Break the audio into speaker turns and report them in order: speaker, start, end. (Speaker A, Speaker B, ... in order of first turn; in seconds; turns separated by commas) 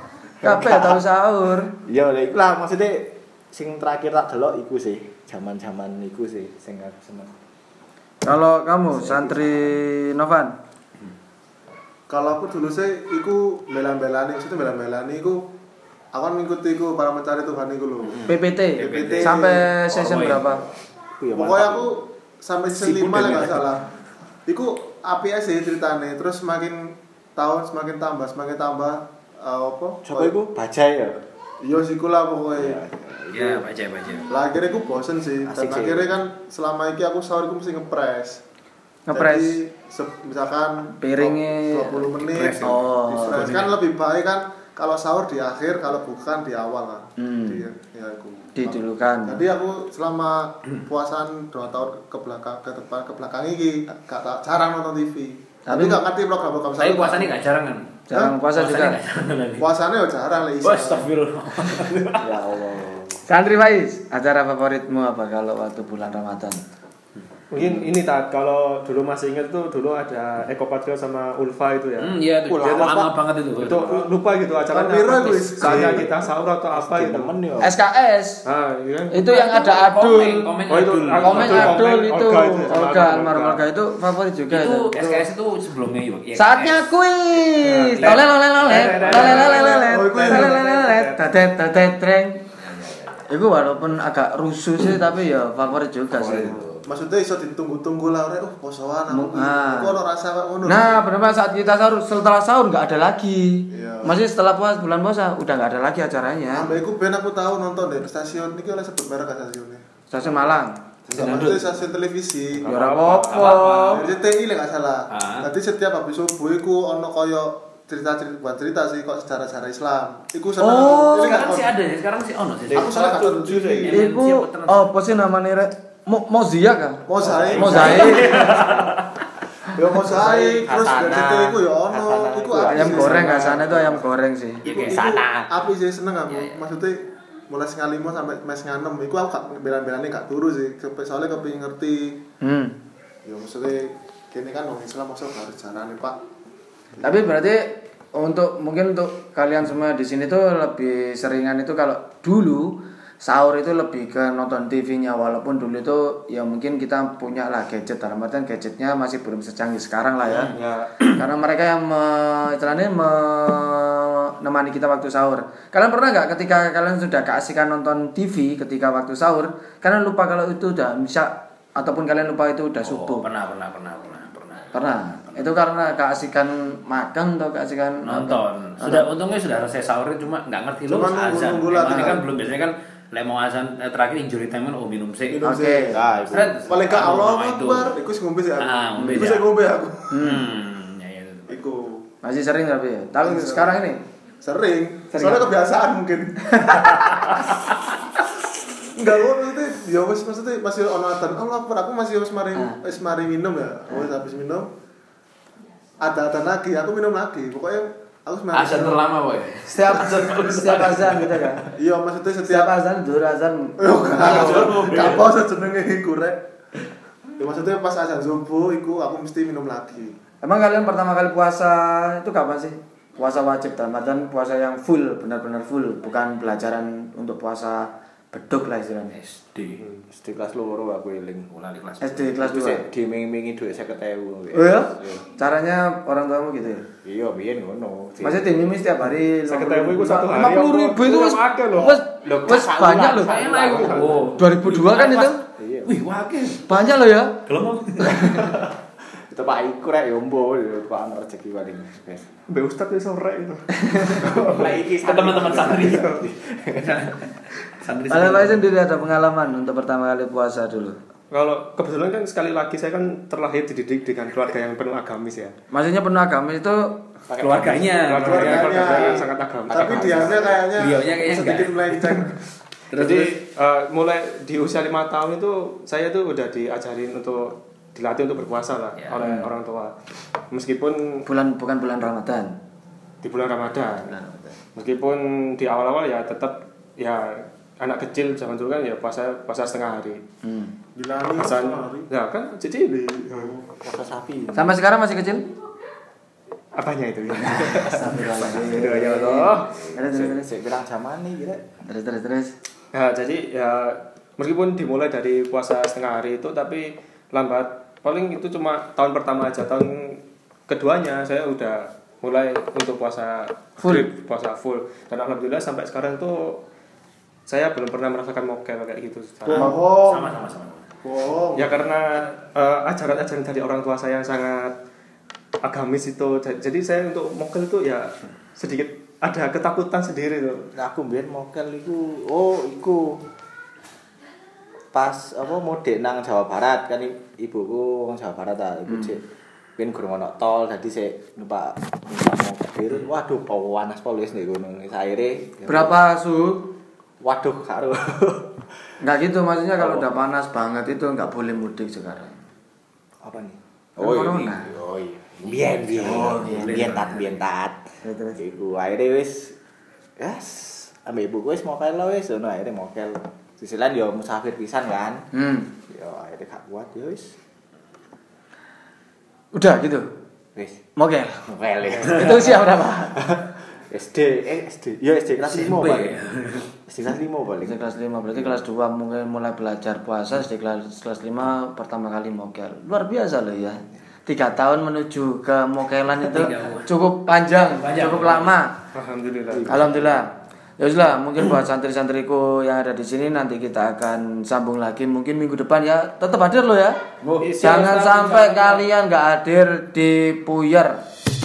Speaker A: 0.4-1.0, Speaker B: 0.4-1.7, Speaker A: 1.8-7.3, Speaker B: 8.2-10.5, Speaker A: 8.9-9.8, Speaker C: 12.1-15.4, Speaker C: 16.1-19.7, Speaker D: 18.0-20.4, Speaker B: 18.3-20.6, Speaker A: 20.1-21.9, Speaker C: 21.3-23.9, Speaker D: 22.7-23.7, Speaker C: 24.5-30.4, Speaker A: 30.1-31.2, Speaker C: 31.6-32.8, Speaker A: 32.6-33.6, Speaker D: 33.3-34.3, Speaker C: 34.3-38.4, Speaker A: 35.5-36.2, Speaker B: 39.1-39.6, Speaker C: 39.1-57.4, Speaker B: 41.0-42.0, Speaker D: 42.2-43.8, Speaker B: 42.6-43.5, Speaker B: 47.2-47.6, Speaker B: 48.6-49.4, Speaker B: 55.7-56.0, Speaker D: 56.8-58.0, Speaker B: 58.1-59.0, Speaker D: 58.5-59.7, Speaker C: 59.6-61.1, Speaker D: 60.6-62.5, Speaker A: 62.2-63.2, Speaker B: 63.3-66.6, Speaker E: 67.5-73.0, Speaker D: 72.0-74.1, Speaker A: 72.5-73.1, Speaker E: 73.6-77.3, Speaker C: 74.7-76.1, Speaker A: 76.7-77.7, Speaker B: 77.6-78.4, Speaker E: 78.5-79.3, Speaker B: 79.1-80.5, Speaker D: 79.4-81.8, Speaker E: 80.7-83.6, Speaker B: 81.2-84.9, Speaker D: 84.5-86.8, Speaker E: 85.0-85.3, Speaker B: 86.3-92.4, Speaker E: 87.7-91.2, Speaker C: 89.0-90.7, Speaker B: 93.3-96.6, Speaker A: 96.1-96.8, Speaker C: 96.8-101.0, Speaker B: 99.1-100.0, Speaker B: 100.7-106.7, Speaker C: 103.7-104.2, Speaker C: 106.5-109.8, Speaker B: 110.1-110.8, Speaker C: 111.1-112.7, Speaker D: 111.1-111.7, Speaker E: 111.2-111.5, Speaker E: 112.6-113.5, Speaker B: 112.7-114.0, Speaker D: 113.1-114.1, Speaker C: 113.8-121.7, Speaker D: 115.1-115.5, Speaker D: 120.6-124.9, Speaker B: 120.9-121.4, Speaker C: 122.7-124.0, Speaker B: 123.9-128.5, Speaker C: 127.1-128.8, Speaker A: 127.2-128.6, Speaker D: 127.7-129.1, Speaker C: 129.7-134.0, Speaker A: 130.1-133.8, Speaker B: 132.7-134.7, Speaker D: 134.7-135.3, Speaker C: 134.7-142.2, Speaker A: 134.9-135.4, Speaker D: 136.3-136.6, Speaker B: 142.4-142.8, Speaker C: 143.2-146.2, Speaker B: 147.0-173.3, Speaker E: 160.2-160.9, Speaker D: 172.8-174.7, Speaker B: 174.7-179.1, Speaker D: 178.0-185.5, Speaker C: 180.9-182.3, Speaker B: 181.8-182.2, Speaker C: 185.3-186.0, Speaker B: 185.4-186.0, Speaker A: 185.9-186.6, Speaker D: 186.2-188.0, Speaker C: 186.6-190.2, Speaker D: 188.6-189.5, Speaker B: 189.0-189.2, Speaker B: 190.1-190.5, Speaker D: 190.2-191.6, Speaker C: 191.5-192.0, Speaker B: 192.2-194.0, Speaker C: 193.2-193.8, Speaker C: 194.4-197.4, Speaker B: 195.1-195.5, Speaker B: 196.5-197.5, Speaker C: 198.9-204.7, Speaker C: 206.0-209.0, Speaker D: 208.5-211.7, Speaker B: 209.7-211.7, Speaker C: 211.8-212.7, Speaker B: 212.5-214.9, Speaker C: 213.8-216.4, Speaker D: 214.3-215.2, Speaker C: 217.4-220.2, Speaker B: 220.4-229.2, Speaker D: 229.1-229.8, Speaker A: 230.1-235.2, Speaker B: 232.0-232.9, Speaker B: 234.5-236.8, Speaker A: 237.0-238.7, Speaker B: 238.2-243.3, Speaker E: 239.5-242.0, Speaker D: 242.1-248.7, Speaker A: 242.6-243.9, Speaker E: 243.3-244.4, Speaker B: 244.4-245.4, Speaker A: 245.6-245.9, Speaker B: 246.7-247.4, Speaker A: 248.1-252.3, Speaker E: 252.5-254.8, Speaker A: 254.0-257.0, Speaker D: 254.6-256.1, Speaker E: 255.8-256.3, Speaker D: 256.8-258.7, Speaker B: 258.1-261.0, Speaker E: 261.3-265.6, Speaker B: 265.7-266.9, Speaker A: 267.3-267.9, Speaker D: 267.4-269.1, Speaker E: 268.0-270.5, Speaker C: 268.2-272.4, Speaker D: 270.7-272.3, Speaker D: 272.9-273.3, Speaker E: 272.9-279.9, Speaker D: 279.0-279.2, Speaker B: 279.2-279.5, Speaker E: 280.5-281.2, Speaker B: 281.2-282.5, Speaker E: 283.2-284.1, Speaker B: 284.0-284.6, Speaker E: 284.8-290.2, Speaker B: 290.4-290.7, Speaker C: 291.0-292.1, Speaker E: 291.3-293.5, Speaker C: 293.0-293.7, Speaker A: 293.8-294.8, Speaker B: 294.5-295.4, Speaker E: 296.8-298.1, Speaker B: 297.4-300.5, Speaker A: 298.2-301.7, Speaker E: 298.6-299.7, Speaker B: 301.9-302.5, Speaker E: 302.9-316.6, Speaker B: 313.8-314.1, Speaker E: 317.5-319.8, Speaker C: 319.5-320.4, Speaker D: 319.5-320.9, Speaker C: 321.0-321.8, Speaker E: 321.6-324.8, Speaker E: 325.6-330.7, Speaker A: 330.8-333.2, Speaker A: 334.9-339.2, Speaker A: 339.8-346.0, Speaker B: 345.7-346.7, Speaker A: 347.2-348.6, Speaker B: 349.0-352.4, Speaker A: 349.8-350.2, Speaker A: 353.2-359.6, Speaker B: 354.0-354.7, Speaker D: 355.9-357.4, Speaker B: 356.0-357.0, Speaker B: 358.0-358.4, Speaker A: 360.2-365.3, Speaker B: 365.3-365.7, Speaker A: 365.9-367.4, Speaker B: 369.5-370.1, Speaker A: 370.6-370.8, Speaker B: 371.0-371.4, Speaker A: 371.5-376.2, Speaker D: 371.9-372.5, Speaker B: 372.0-373.2, Speaker D: 375.4-376.7, Speaker A: 376.9-378.6, Speaker B: 377.6-388.7, Speaker D: 386.2-386.9, Speaker D: 387.7-388.6, Speaker E: 388.9-389.7, Speaker A: 389.5-390.2, Speaker B: 389.7-390.3, Speaker B: 390.8-397.0, Speaker D: 397.2-398.2, Speaker A: 397.4-398.9, Speaker B: 397.6-401.0